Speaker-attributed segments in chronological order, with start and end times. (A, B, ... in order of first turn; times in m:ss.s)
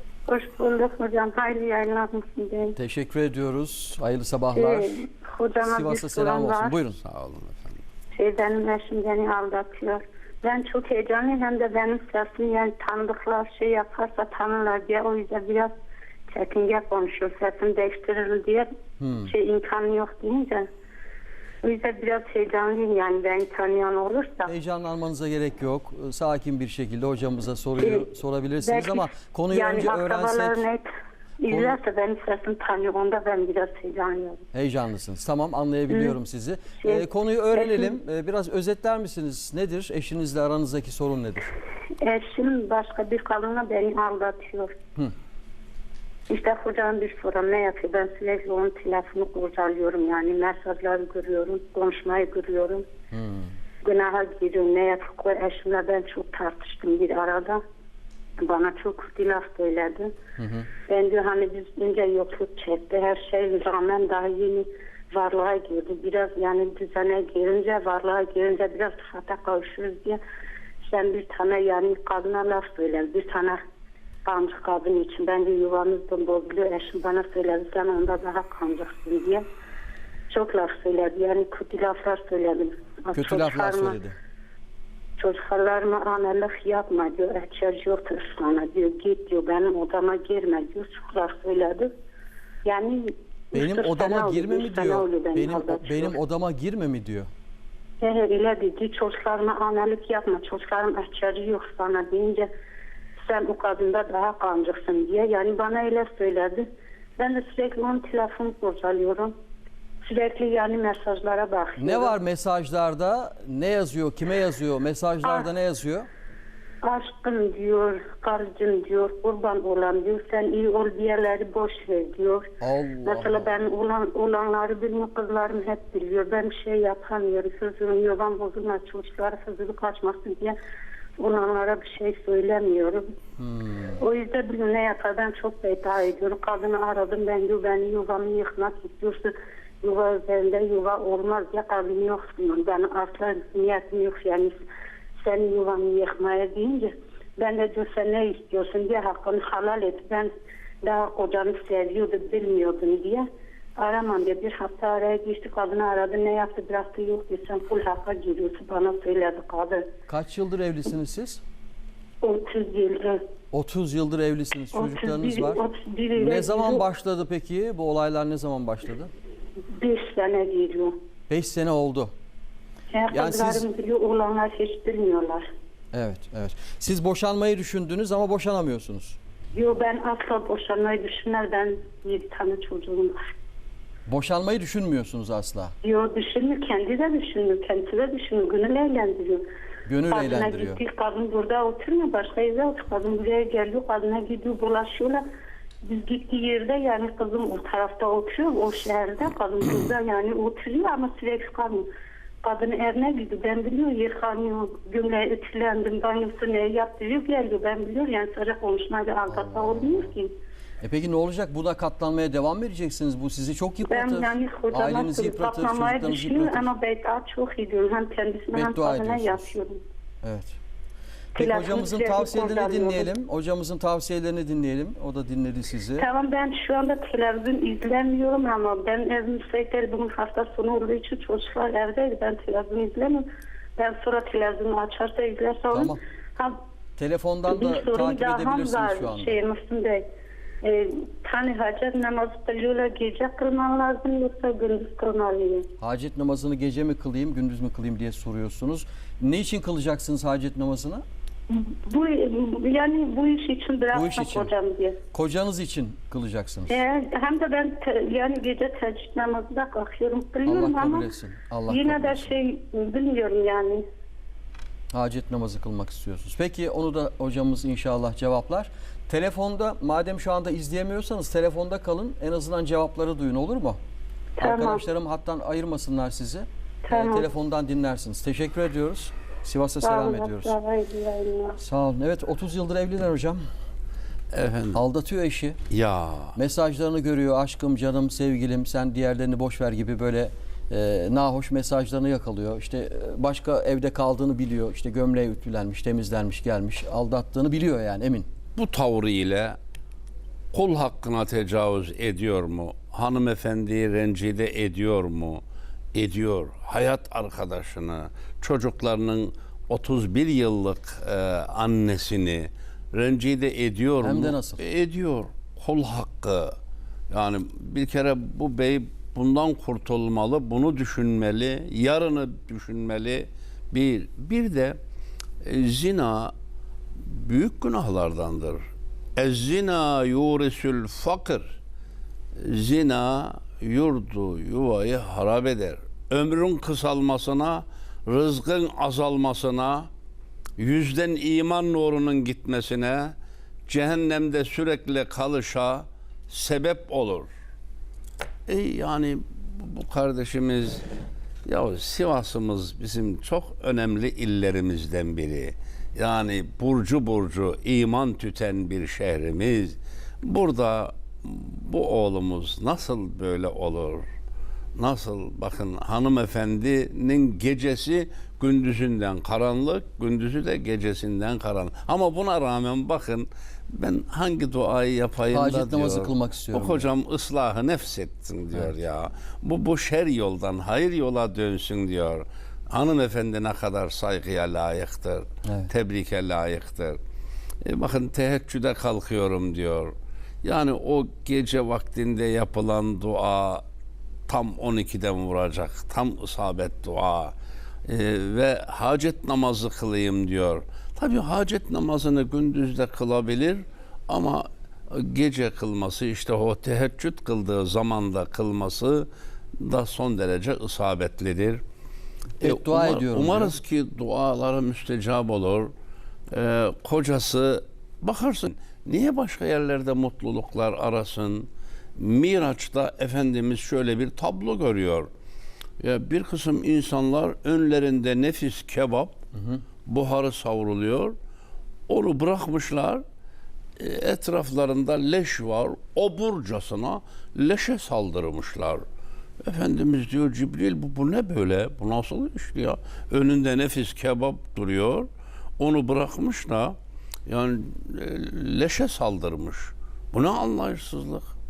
0:00.3-0:02.8 A
0:02.8-0:04.9 B
0:04.6-0:06.8 A
0:05.6-0:07.0 B
0:07.0-0:07.8 C
0:08.1-0:15.7 A
0:16.3-0:18.7 A
0:19.0-0:19.3 B
0:19.2-0:20.7 A
0:21.6-0:24.5 A
0:24.5-0:30.6 B
0:27.8-0:28.1 A
0:28.6-0:30.8 A
0:31.4-0:34.5 A
0:31.5-0:31.8 B
0:34.5-0:41.5 B
0:35.9-0:36.2 A
0:36.8-0:38.0 A
0:42.0-0:44.8 A
0:46.3-0:52.8 A
0:53.1-0:53.5 B
0:53.8-0:57.6 A
0:58.4-1:00.1 A
1:00.4-1:00.7 B
1:00.9-1:10.2 A
1:10.8-1:13.6 A
1:14.2-1:19.4 A
1:20.3-1:24.0 A
1:23.1-1:24.2 B
1:25.2-1:31.9 A
1:32.6-1:36.2 A
1:33.5-1:37.3 B
1:38.0-1:42.5 A
1:43.2-1:49.3 A
1:50.0-1:52.2 A
1:51.8-1:56.1 B
1:56.8-2:02.5 A
2:02.6-2:03.6 B
2:03.0-2:10.6 A
2:11.2-2:13.1 A
2:13.4-2:14.0 B
2:14.0-2:24.6 A
2:25.2-2:30.3 A
2:30.8-2:33.3 A
2:33.8-2:39.9 A
2:40.1-2:41.4 B
2:42.2-2:43.2 A
2:43.5-2:45.6 B
2:44.7-2:46.9 A
2:46.2-2:49.1 B
2:49.7-2:51.0 A
2:51.3-2:52.1 B
2:52.9-2:55.4 A
2:53.1-2:53.7 B
2:55.9-2:59.2 B
2:59.5-3:03.2 A
3:04.1-3:05.7 B
3:05.8-3:09.4 A
3:09.9-3:10.8 B
3:10.1-3:15.2 A
3:15.8-3:21.9 A
3:22.4-3:30.3 A
3:29.3-3:30.1 B
3:30.8-3:36.7 B
3:33.9-3:39.8 A
3:38.5-3:39.5 B
3:40.2-3:40.6 B
3:41.4-3:43.1 A
3:41.4-3:46.1 B
3:46.0-3:56.6 A
3:55.7-3:56.0 B
3:57.0-3:59.4 B
3:57.5-4:00.0 A
4:00.6-4:05.7 A
4:05.8-4:11.0 B
4:11.5-4:15.0 A
4:13.9-4:14.5 B
4:15.1-4:16.8 B
4:16.7-4:21.1 A
4:20.5-4:22.3 B
4:21.7-4:23.8 A
4:24.9-4:33.8 B
4:34.4-4:34.8 A
4:34.4-4:40.6 B
4:36.8-4:37.3 A
4:39.8-4:41.6 A
4:41.6-4:43.4 B
4:44.3-4:44.8 C
4:44.7-4:45.6 B
4:45.7-4:46.4 C
4:46.4-4:58.3 B
4:58.6-4:59.6 C
5:00.5-5:05.4 C
5:05.9-5:16.6 C
5:14.0-5:14.6 B
5:17.1-5:24.8 C
5:25.4-5:26.3 C
5:27.0-5:28.6 C
5:29.2-5:31.6 C
5:32.4-5:39.9 C
5:40.6-5:43.2 C
5:43.7-5:47.3 C
5:48.5-5:50.8 C
5:51.5-6:04.1 C
6:04.8-6:27.0 C
6:15.3-6:16.9 B
6:25.4-6:25.7 B
6:27.6-6:33.6 C
6:34.3-6:37.4 C
6:37.9-6:49.1 C
6:49.6-6:51.6 C
6:52.4-6:53.6 B
6:52.4-6:55.7 C
6:56.3-7:05.1 C
7:05.8-7:09.2 C
7:09.9-7:11.2 C
7:11.9-7:13.0 C
7:13.8-7:18.8 C
7:19.4-7:25.1 C
7:25.6-7:26.8 C
7:27.3-7:31.3 C